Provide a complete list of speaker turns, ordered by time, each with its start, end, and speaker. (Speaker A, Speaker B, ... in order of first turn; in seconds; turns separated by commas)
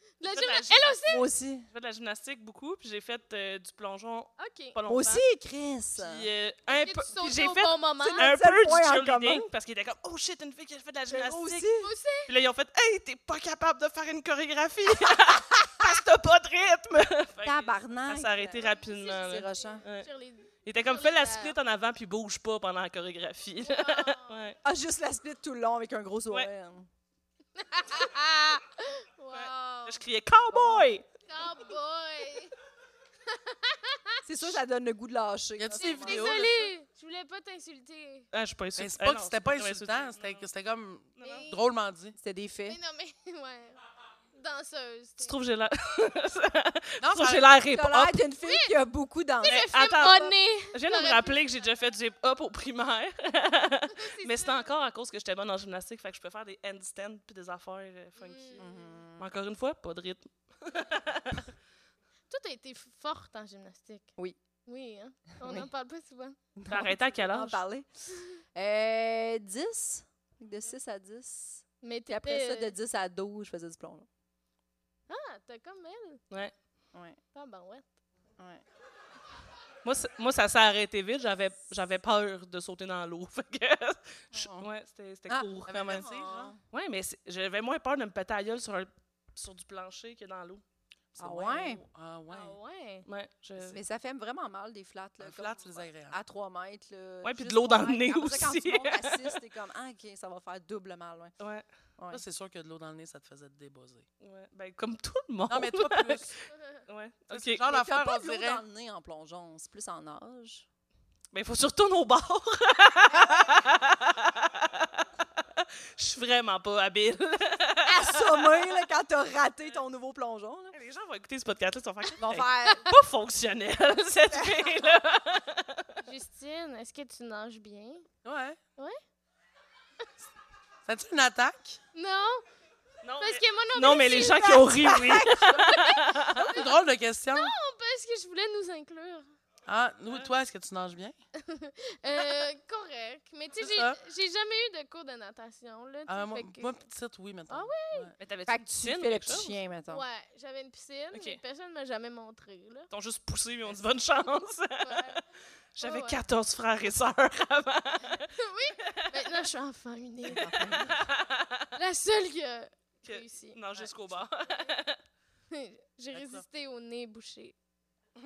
Speaker A: 0.2-1.3, Speaker B: 0.3-1.0, Speaker C: 1.0-1.7, Speaker B: 1.7-5.2, Speaker A: 4.4-4.8, Speaker C: 4.9-6.3, Speaker B: 6.0-11.7, Speaker A: 6.7-8.3, Speaker C: 8.0-9.4, Speaker C: 11.1-11.9, Speaker A: 11.8-12.3, Speaker B: 12.2-20.1, Speaker C: 17.4-19.8, Speaker A: 18.6-21.5, Speaker B: 20.6-24.6, Speaker A: 23.6-24.4, Speaker C: 24.6-26.9, Speaker A: 27.6-30.0, Speaker B: 29.3-31.1, Speaker C: 30.5-30.9, Speaker A: 31.2-32.5, Speaker A: 33.3-34.5, Speaker C: 34.2-36.5, Speaker D: 35.6-36.5, Speaker A: 35.8-38.3, Speaker B: 38.3-40.4, Speaker D: 38.8-42.1, Speaker B: 41.2-41.5, Speaker A: 41.2-41.6, Speaker C: 42.2-42.8, Speaker A: 42.7-43.8, Speaker A: 44.3-45.3, Speaker B: 45.2-48.2, Speaker D: 47.0-47.5, Speaker C: 47.7-49.6, Speaker A: 48.4-48.7, Speaker A: 49.4-51.4, Speaker B: 49.4-61.5, Speaker A: 53.9-54.7, Speaker A: 58.2-58.9, Speaker C: 58.6-59.3, Speaker A: 62.3-64.1, Speaker A: 64.7-66.4, Speaker C: 65.4-65.7, Speaker C: 66.6-67.9, Speaker B: 66.7-67.6, Speaker C: 68.5-74.1, Speaker A: 71.8-72.7, Speaker A: 75.1-76.2, Speaker A: 77.3-77.8, Speaker B: 79.8-86.0, Speaker D: 84.3-84.7, Speaker C: 85.3-86.6, Speaker D: 85.7-86.5, Speaker B: 86.7-90.6, Speaker D: 91.1-92.5, Speaker C: 91.2-91.8, Speaker A: 92.3-93.0, Speaker B: 93.0-93.8, Speaker C: 93.6-101.3, Speaker D: 95.2-96.2, Speaker B: 97.2-99.4, Speaker D: 102.1-104.1, Speaker B: 104.2-107.6, Speaker D: 105.5-106.3, Speaker A: 106.5-106.8, Speaker D: 107.3-108.6, Speaker C: 107.7-110.6, Speaker B: 111.3-118.7, Speaker C: 117.8-120.8, Speaker B: 120.7-126.0, Speaker C: 122.2-122.9, Speaker C: 124.3-124.8, Speaker A: 126.0-128.1, Speaker D: 128.2-128.6, Speaker D: 130.9-131.8, Speaker A: 131.9-132.4, Speaker B: 133.0-136.5, Speaker A: 133.2-134.7, Speaker C: 134.2-135.9, Speaker A: 135.4-136.7, Speaker D: 136.5-137.6, Speaker A: 137.3-139.2, Speaker D: 139.7-141.2, Speaker A: 141.4-146.8, Speaker D: 143.6-144.0, Speaker D: 146.1-148.1, Speaker A: 147.5-148.1, Speaker B: 148.2-149.5, Speaker C: 148.5-150.0, Speaker A: 149.9-152.9, Speaker B: 151.1-151.4, Speaker B: 152.9-155.2, Speaker A: 154.8-155.2, Speaker B: 155.8-158.3, Speaker A: 155.8-156.2, Speaker A: 158.4-160.8, Speaker B: 158.8-159.5, Speaker C: 160.2-161.0, Speaker B: 160.3-161.7, Speaker A: 161.7-163.6, Speaker B: 163.0-165.0, Speaker D: 163.7-164.2, Speaker A: 165.5-167.5, Speaker D: 166.1-166.4